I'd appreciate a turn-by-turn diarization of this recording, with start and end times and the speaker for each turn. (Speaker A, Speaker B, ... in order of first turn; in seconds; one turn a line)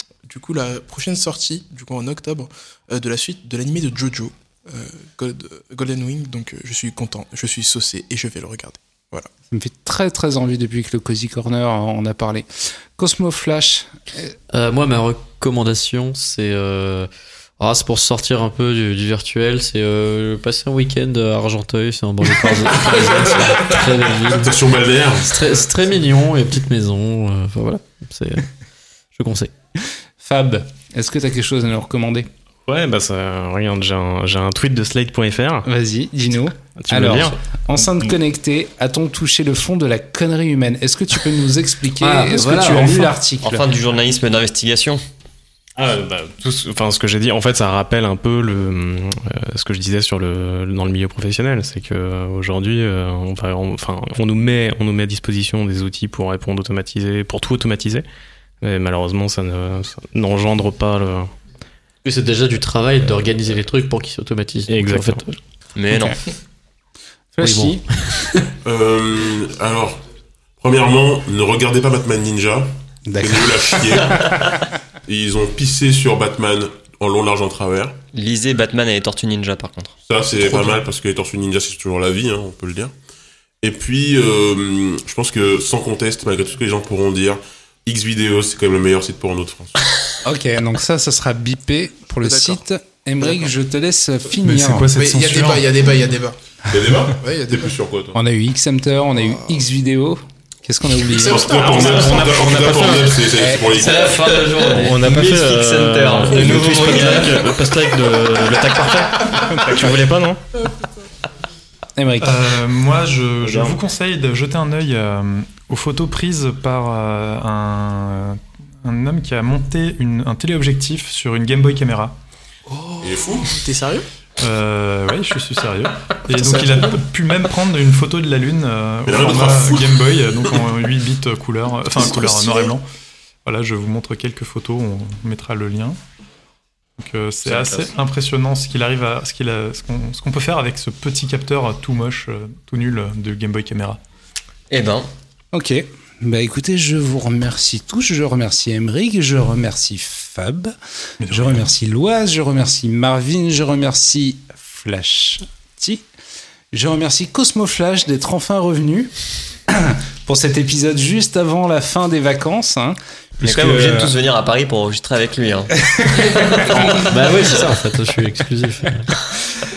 Speaker A: 0.3-9.3
Speaker B: 9.5-14.3
Speaker C: 14.5-24.5
Speaker D: 24.3-25.4
Speaker C: 25.2-28.5
Speaker C: 29.1-29.5
Speaker B: 30.2-32.3
Speaker E: 32.7-35.7
Speaker B: 35.6-43.7
Speaker E: 36.8-37.4
Speaker C: 42.0-43.1
Speaker F: 43.4-45.0
Speaker E: 45.8-58.0
Speaker E: 58.6-61.3
Speaker C: 62.0-65.4
Speaker E: 64.7-65.2
Speaker F: 65.8-66.2
Speaker B: 67.3-67.8
Speaker C: 67.4-68.3
Speaker D: 68.6-70.0
Speaker D: 70.6-74.5
Speaker B: 73.1-74.5
Speaker D: 75.1-78.0
Speaker F: 78.1-80.0
Speaker D: 80.1-82.9
Speaker D: 83.6-89.7
Speaker B: 90.2-94.9
Speaker A: 92.2-92.6
Speaker G: 94.4-95.7
Speaker A: 95.0-96.4
Speaker D: 96.7-98.2
Speaker A: 97.1-97.8
Speaker B: 98.1-101.5
Speaker A: 99.2-99.5
Speaker A: 101.1-102.2
Speaker D: 101.2-104.3
Speaker E: 101.5-103.1
Speaker F: 101.7-103.1
Speaker B: 103.3-103.7
Speaker C: 103.7-105.0
Speaker F: 104.5-107.7
Speaker E: 104.7-110.4
Speaker B: 112.0-112.4
Speaker G: 112.2-122.2
Speaker E: 113.4-113.8
Speaker A: 122.7-124.1
Speaker D: 123.0-123.6
Speaker G: 124.4-132.9
Speaker A: 126.3-127.0
Speaker D: 129.1-130.6
Speaker A: 132.0-132.7
Speaker G: 133.4-136.0
Speaker G: 137.0-144.0
Speaker F: 144.7-145.1
Speaker B: 145.5-150.8
Speaker G: 151.2-151.6
Speaker B: 151.3-156.0
Speaker B: 156.7-159.1
Speaker B: 159.7-164.2
Speaker F: 163.4-167.0
Speaker B: 165.8-167.1
Speaker C: 167.0-169.1